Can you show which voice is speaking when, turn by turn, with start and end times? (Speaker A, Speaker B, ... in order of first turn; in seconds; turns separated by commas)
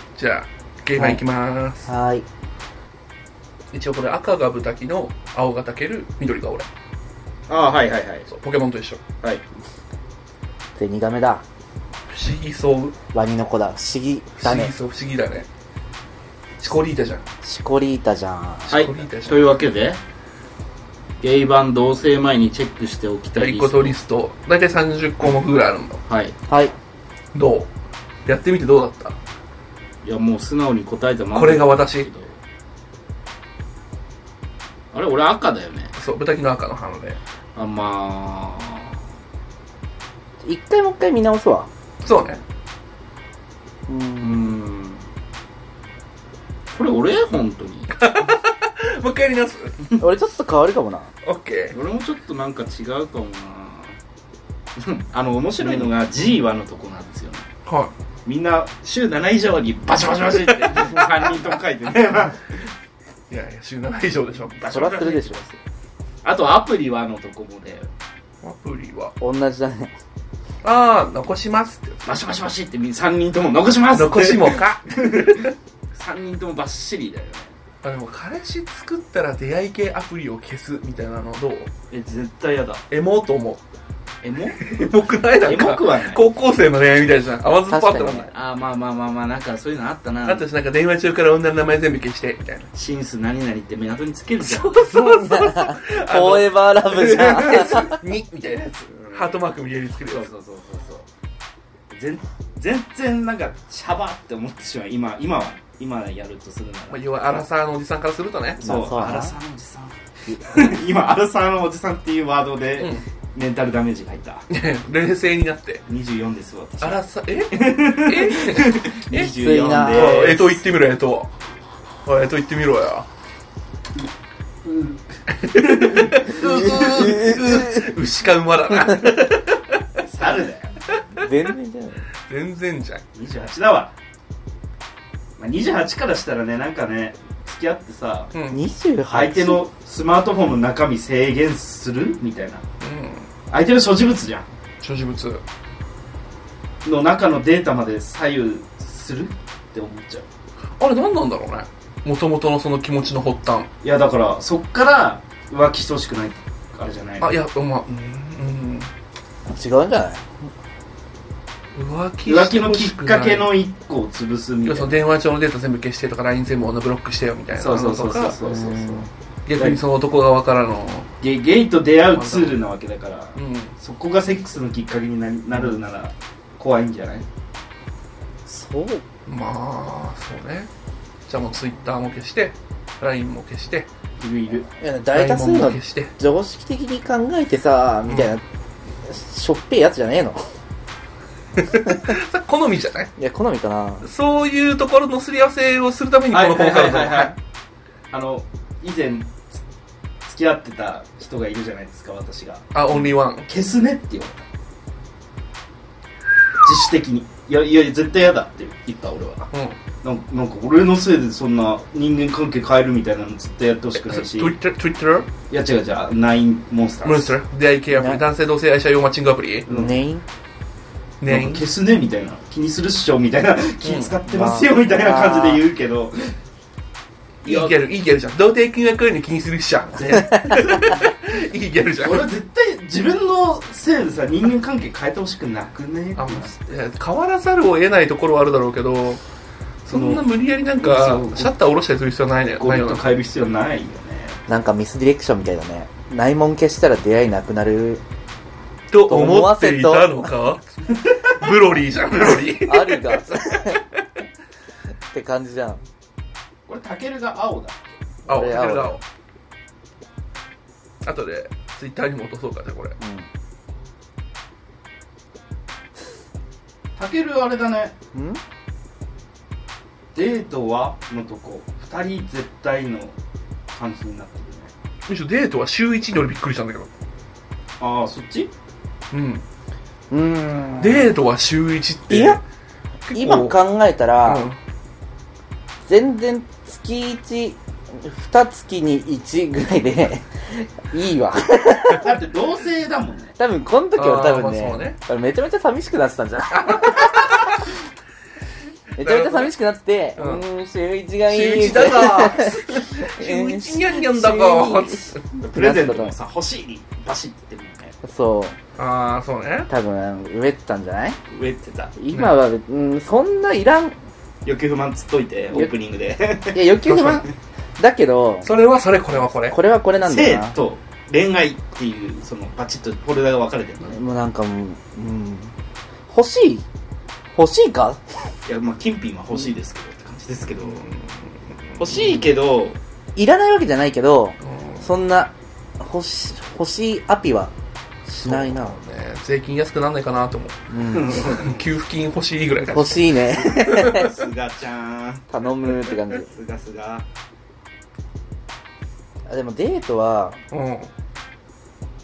Speaker A: 0.2-1.9, Speaker B: 1.0-1.2, Speaker B: 1.9-2.2, Speaker A: 3.7-6.7, Speaker C: 7.5-8.3, Speaker A: 8.3-9.0, Speaker B: 10.8-11.4, Speaker A: 12.1-12.9, Speaker B: 13.1-14.7, Speaker A: 14.4-15.5, Speaker A: 16.6-17.2, Speaker B: 17.4-18.8, Speaker A: 18.7-19.5, Speaker C: 18.7-20.0, Speaker C: 21.2-24.0, Speaker A: 23.4-26.0, Speaker C: 26.1-26.4, Speaker B: 26.5-26.7, Speaker A: 27.3-27.7, Speaker A: 28.3-29.2, Speaker C: 30.0-32.3, Speaker A: 31.4-32.1, Speaker C: 34.9-35.9, Speaker A: 36.0-37.2, Speaker C: 37.6-39.0, Speaker B: 40.4-41.7, Speaker A: 42.0-42.4, Speaker B: 43.9-44.5, Speaker C: 44.2-45.0, Speaker C: 46.7-47.9, Speaker A: 47.9-49.8, Speaker B: 50.0-51.1, Speaker A: 51.2-51.8, Speaker C: 51.7-54.0, Speaker C: 54.8-57.5, Speaker A: 57.7-57.9, Speaker C: 58.2-62.7, Speaker A: 60.4-61.4, Speaker A: 63.3-64.6, Speaker C: 64.6-65.6, Speaker B: 64.6-65.4, Speaker C: 66.2-67.9, Speaker A: 68.4-69.1, Speaker B: 69.2-69.9, Speaker A: 70.6-72.0, Speaker C: 72.0-77.5, Speaker A: 73.9-75.5, Speaker A: 77.8-81.7, Speaker C: 81.9-82.8, Speaker A: 82.9-83.6, Speaker C: 84.2-84.8, Speaker A: 84.6-88.3, Speaker C: 85.4-86.2, Speaker B: 87.7-88.3, Speaker C: 88.3-90.5, Speaker A: 90.2-92.7, Speaker C: 92.7-94.8, Speaker A: 94.4-100.3, Speaker B: 94.9-98.0, Speaker C: 99.0-99.3, Speaker C: 100.0-101.1, Speaker C: 101.9-107.0, Speaker A: 106.9-108.6, Speaker C: 108.6-114.5, Speaker B: 108.6-109.3, Speaker B: 110.3-110.8, Speaker A: 114.5-115.8, Speaker C: 115.9-120.6, Speaker A: 116.8-119.3, Speaker B: 119.2-120.5, Speaker A: 119.9-121.3, Speaker A: 122.1-123.1, Speaker C: 124.7-125.0, Speaker A: 125.4-130.0, Speaker C: 125.5-126.8, Speaker B: 126.4-127.9, Speaker C: 130.0-130.8, Speaker A: 130.9-131.3, Speaker B: 131.2-132.0, Speaker A: 132.3-133.0, Speaker C: 133.2-133.9, Speaker C: 135.4-138.3, Speaker A: 138.3-138.6, Speaker B: 138.5-139.6, Speaker C: 139.1-142.6, Speaker A: 142.8-143.3, Speaker C: 143.5-144.5, Speaker A: 144.8-145.4, Speaker C: 146.8-150.3, Speaker A: 150.8-153.7, Speaker C: 153.8-157.3, Speaker A: 157.2-158.9, Speaker B: 159.5-160.3, Speaker A: 161.8-163.5, Speaker C: 162.2-165.0, Speaker A: 164.7-168.4, Speaker C: 167.6-169.8, Speaker B: 168.5-169.1, Speaker A: 169.5-171.1, Speaker C: 171.2-177.3, Speaker A: 172.1-172.6, Speaker A: 173.4-173.7, Speaker B: 178.5-179.0, Speaker A: 179.3-180.7, Speaker A: 181.3-183.9, Speaker C: 184.2-184.7, Speaker B: 184.8-188.4, Speaker A: 185.1-186.1, Speaker B: 189.1-190.4, Speaker A: 191.6-193.1, Speaker B: 193.2-194.1, Speaker A: 194.0-197.3, Speaker C: 196.3-197.3, Speaker C: 198.1-199.6, Speaker C: 200.2-204.5, Speaker A: 202.7-203.5, Speaker C: 206.6-209.5, Speaker A: 209.5-209.8, Speaker C: 210.0-214.6, Speaker A: 214.0-215.3, Speaker C: 215.5-217.4, Speaker A: 217.1-219.7, Speaker B: 217.9-218.2, Speaker C: 219.7-220.0, Speaker B: 219.7-220.2, Speaker A: 221.2-221.7, Speaker C: 221.3-226.3, Speaker A: 223.8-224.2, Speaker B: 224.3-225.6, Speaker A: 227.4-232.3, Speaker C: 227.4-227.8, Speaker C: 230.0-230.9, Speaker B: 230.2-230.6, Speaker C: 232.0-236.7, Speaker A: 236.2-239.2, Speaker A: 239.8-243.1, Speaker C: 239.9-240.2, Speaker C: 240.8-241.5, Speaker C: 242.6-244.4, Speaker B: 244.5-248.0, Speaker A: 248.9-253.4, Speaker B: 249.1-250.3, Speaker B: 252.6-253.8, Speaker B: 255.1-255.8, Speaker C: 256.7-257.9, Speaker B: 258.3-259.0, Speaker A: 258.3-259.0, Speaker A: 261.0-263.0, Speaker B: 263.0-263.3, Speaker C: 267.0-268.0, Speaker B: 268.1-268.4, Speaker C: 270.1-273.1, Speaker C: 273.7-274.7, Speaker A: 275.1-276.9, Speaker C: 277.8-278.5, Speaker A: 279.1-279.4, Speaker B: 280.1-281.1, Speaker A: 280.8-282.4, Speaker B: 282.1-282.4, Speaker A: 283.1-283.6, Speaker B: 283.1-284.4, Speaker A: 284.2-284.6, Speaker B: 285.9-292.1, Speaker C: 292.0-293.3, Speaker B: 293.4-297.6, Speaker A: 294.0-295.0, Speaker A: 296.5-297.6, Speaker B: 299.0-306.1, Speaker A: 299.0-299.5, Speaker A: 300.2-300.4, Speaker A: 301.3-305.2, Speaker C: 305.4-307.9, Speaker B: 308.0-308.6, Speaker A: 308.8-309.7, Speaker B: 309.7-311.2, Speaker C: 311.3-311.9, Speaker B: 312.0-314.0, Speaker C: 314.4-316.6, Speaker B: 316.5-318.5, Speaker A: 316.9-317.2, Speaker A: 318.4-319.6, Speaker B: 319.5-320.6, Speaker C: 320.0-324.0, Speaker B: 323.9-325.5, Speaker B: 326.1-326.7, Speaker B: 327.4-328.0, Speaker C: 328.5-330.9, Speaker A: 330.7-331.0, Speaker C: 331.8-332.8, Speaker B: 333.2-337.5, Speaker A: 334.5-334.9, Speaker B: 338.1-338.8, Speaker A: 338.2-340.6, Speaker B: 340.7-341.4, Speaker C: 340.9-341.6, Speaker A: 341.1-344.1, Speaker B: 342.7-344.1, Speaker C: 343.9-345.3, Speaker B: 345.3-346.3, Speaker C: 346.1-347.1, Speaker B: 349.3-350.4, Speaker A: 350.5-350.9